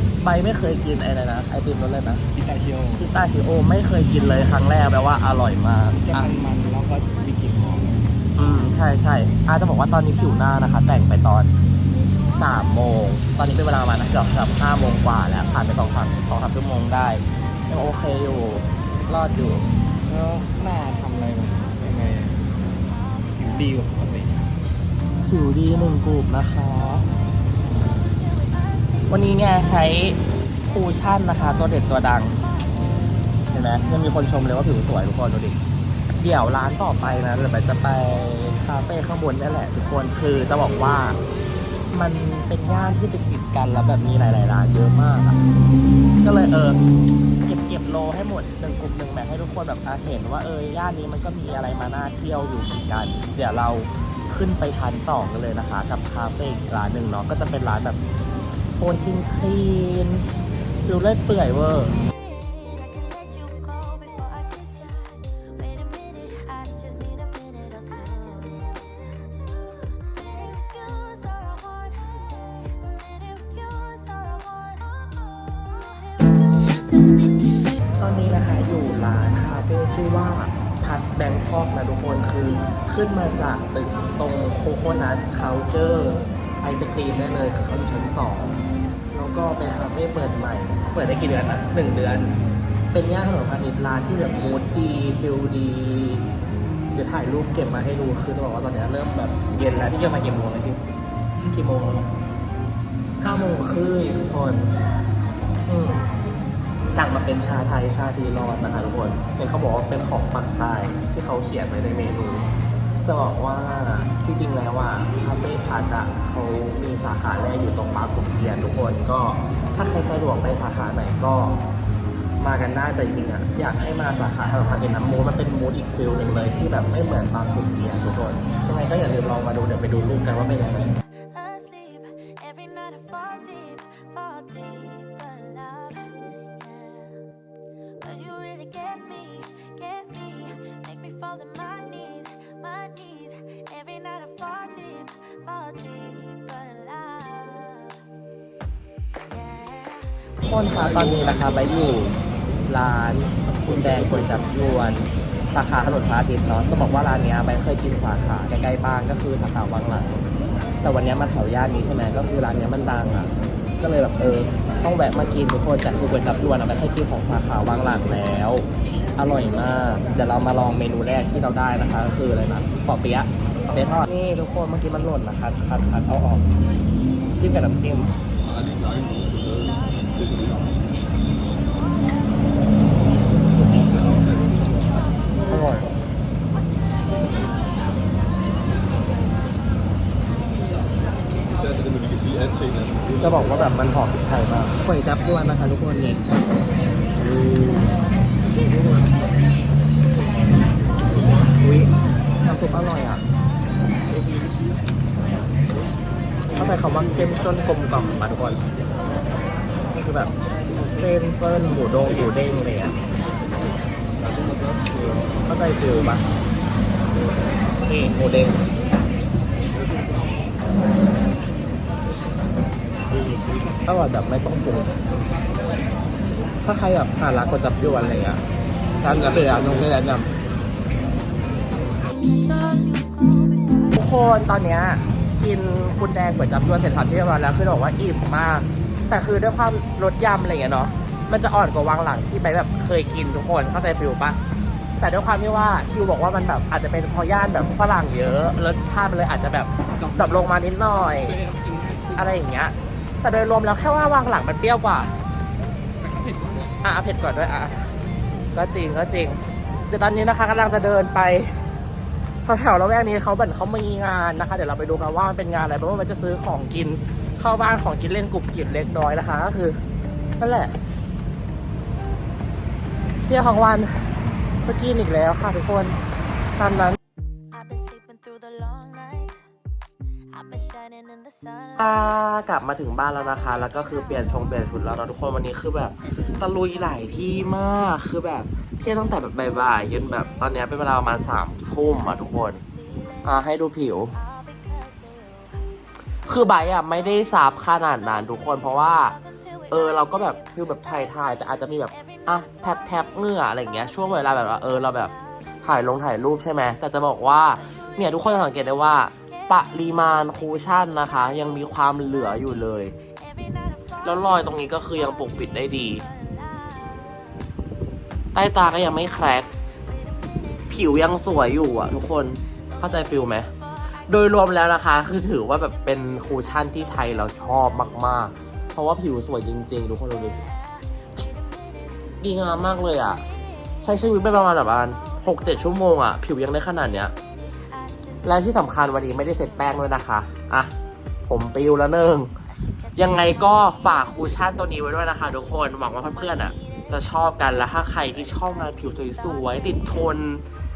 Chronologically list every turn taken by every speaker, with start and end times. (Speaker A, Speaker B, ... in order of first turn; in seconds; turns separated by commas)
Speaker A: 0.2-2.2, Speaker B: 2.3-3.0, Speaker A: 3.0-6.3, Speaker B: 6.0-8.0, Speaker A: 8.4-11.5, Speaker A: 12.3-19.7, Speaker B: 20.0-22.5, Speaker B: 23.4-24.5, Speaker A: 25.2-27.1, Speaker A: 29.1-32.4, Speaker A: 33.5-35.6, Speaker A: 36.2-41.2, Speaker A: 41.9-45.4, Speaker A: 46.2-46.8, Speaker A: 47.5-58.0, Speaker A: 58.8-60.2, Speaker A: 60.9-61.9, Speaker A: 78.0-88.6, Speaker A: 89.1-92.4, Speaker A: 92.9-96.3, Speaker A: 96.9-100.8, Speaker A: 101.3-102.1, Speaker A: 103.2-104.7, Speaker A: 105.7-106.1, Speaker A: 106.9-112.5, Speaker A: 113.0-121.6, Speaker A: 122.4-130.9, Speaker C: 138.3-139.0, Speaker C: 140.5-142.5, Speaker C: 143.2-143.6, Speaker C: 146.1-147.1, Speaker A: 150.4-160.2, Speaker A: 160.8-176.4, Speaker A: 177.4-178.2, Speaker A: 183.6-183.9, Speaker A: 185.5-185.9, Speaker A: 193.2-196.2, Speaker A: 197.2-198.0, Speaker A: 201.5-203.2, Speaker A: 206.5-208.6, Speaker A: 209.9-210.3, Speaker A: 210.9-213.0, Speaker A: 215.4-216.2, Speaker A: 217.8-218.6, Speaker A: 223.1-225.0, Speaker A: 226.6-228.4, Speaker A: 229.0-230.3, Speaker C: 232.4-232.8, Speaker A: 233.9-244.4, Speaker A: 245.0-251.4, Speaker A: 252.0-255.1, Speaker A: 256.8-257.9, Speaker A: 258.5-261.6, Speaker A: 262.4-269.8, Speaker A: 270.4-270.8, Speaker A: 273.2-274.0, Speaker A: 274.6-276.0, Speaker A: 276.6-277.0, Speaker C: 278.4-279.0, Speaker A: 281.8-292.6, Speaker A: 293.2-294.2, Speaker A: 296.2-299.2, Speaker A: 299.7-312.9, Speaker A: 314.0-316.1, Speaker A: 318.3-319.5, Speaker A: 320.7-323.5, Speaker A: 324.1-330.4, Speaker A: 332.2-333.2, Speaker A: 333.8-337.1, Speaker A: 338.2-340.7, Speaker A: 341.3-342.3, Speaker A: 342.9-350.4